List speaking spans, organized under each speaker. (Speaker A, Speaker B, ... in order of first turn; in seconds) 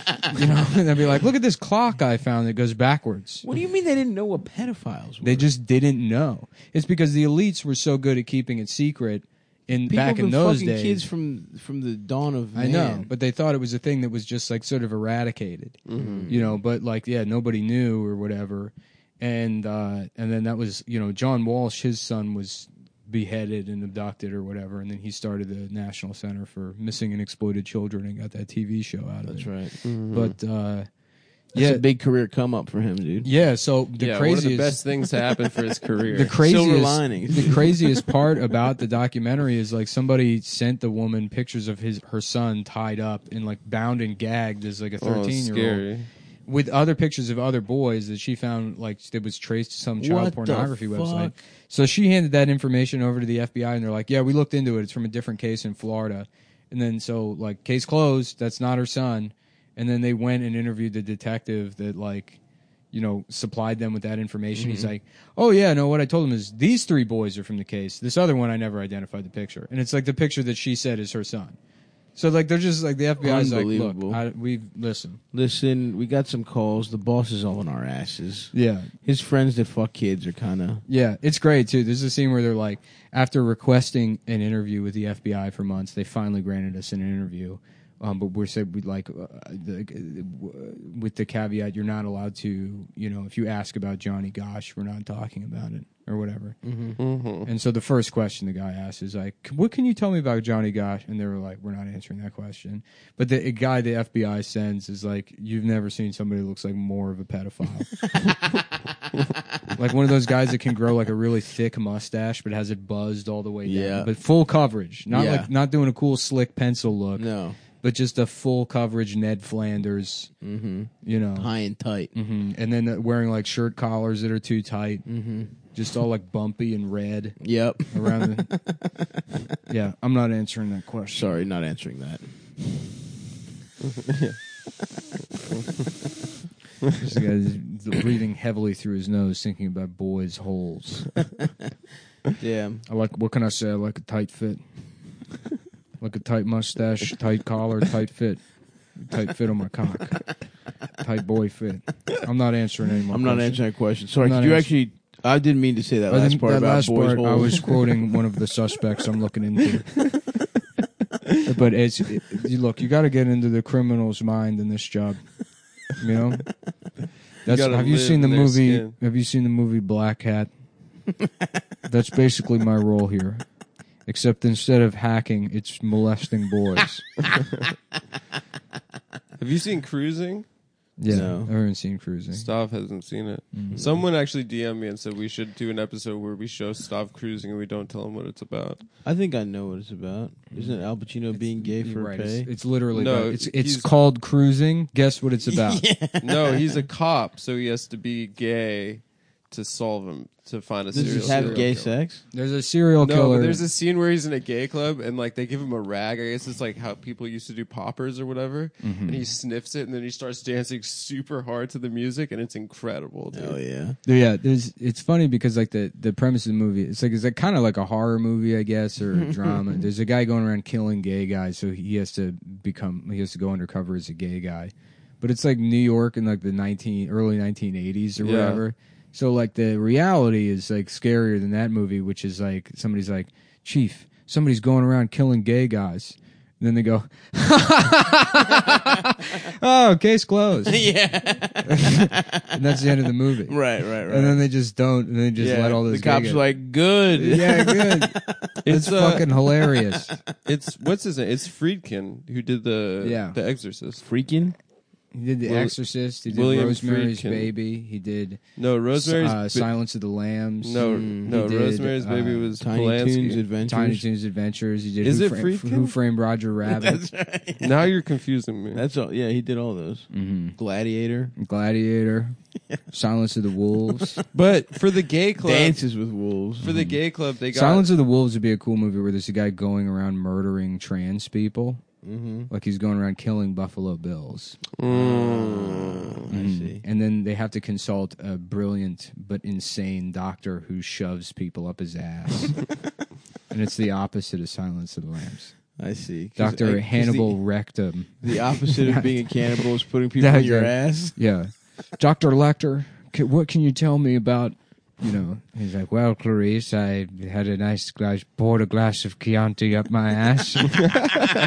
Speaker A: 0.3-3.5, 5.2-11.0, 12.5-30.9, 31.6-31.8, 33.2-34.8, 36.1-45.8, 46.5-62.4, 62.9-71.6, 72.2-75.2, 78.5-78.9, 80.9-96.6, 97.5-107.9, 109.7-117.3, 117.8-120.3, 121.0-121.5, 122.1-125.1, 125.7-127.4, 127.9-128.5, 129.7-131.3, 137.0-141.1, 142.9-144.6, 146.0-150.2, 151.0-153.6, 154.2-154.7, 156.1-160.2, 161.4-165.3, 165.9-166.5, 167.4-170.5, 171.9-173.4, 174.1-177.1, 181.0-182.5, 183.5-183.8, 191.3-195.9, 200.9-201.7, 202.3-203.7, 208.8-209.3, 214.1-240.9, 241.6-246.5, 247.1-250.2, 253.0-253.4, 255.1-258.4, 258.9-262.6, 263.7-267.0, 270.1-270.6, 271.4-272.4, 272.9-274.2, 276.6-277.0, 277.5-281.8, 282.5-284.6, 286.3-292.6, 293.5-295.6, 296.4-299.1, 300.2-310.9
Speaker B: 3.4-5.5, 9.9-13.1, 15.9-16.6, 29.3-29.7, 31.6-33.3, 36.4-37.7, 50.0-51.4, 64.5-64.9, 73.2-74.2, 75.3-78.5, 79.0-80.8, 96.6-97.0, 113.7-114.1, 115.1-115.5, 117.2-117.6, 120.4-122.1, 125.1-125.6, 127.4-129.2, 131.1-132.2, 142.4-142.8, 153.1-157.9, 181.1-181.5, 183.7-184.0, 189.1-192.5, 195.5-196.8, 200.9-202.2, 213.3-214.0, 240.7-242.6, 243.5-244.4, 245.4-248.5, 249.8-250.2, 254.0-254.6, 260.8-261.4, 262.6-264.0, 266.7-267.9, 268.7-271.3, 273.9-274.2, 275.4-276.7, 282.0-282.5, 284.9-286.8, 295.8-297.4, 298.2-301.2
Speaker C: 15.9-16.3, 29.8-30.4, 34.0-36.4, 45.0-46.1, 97.0-97.5, 133.9-134.4, 167.5-168.9, 179.4-180.5, 182.3-188.8, 192.9-193.9, 196.2-202.0, 203.0-213.6, 228.2-228.6, 248.7-249.3, 250.4-254.0, 255.4-255.8, 256.3-257.5, 258.6-259.7, 260.6-263.4, 265.0-265.9, 267.6-268.8, 274.3-275.8, 276.6-277.9, 284.8-286.2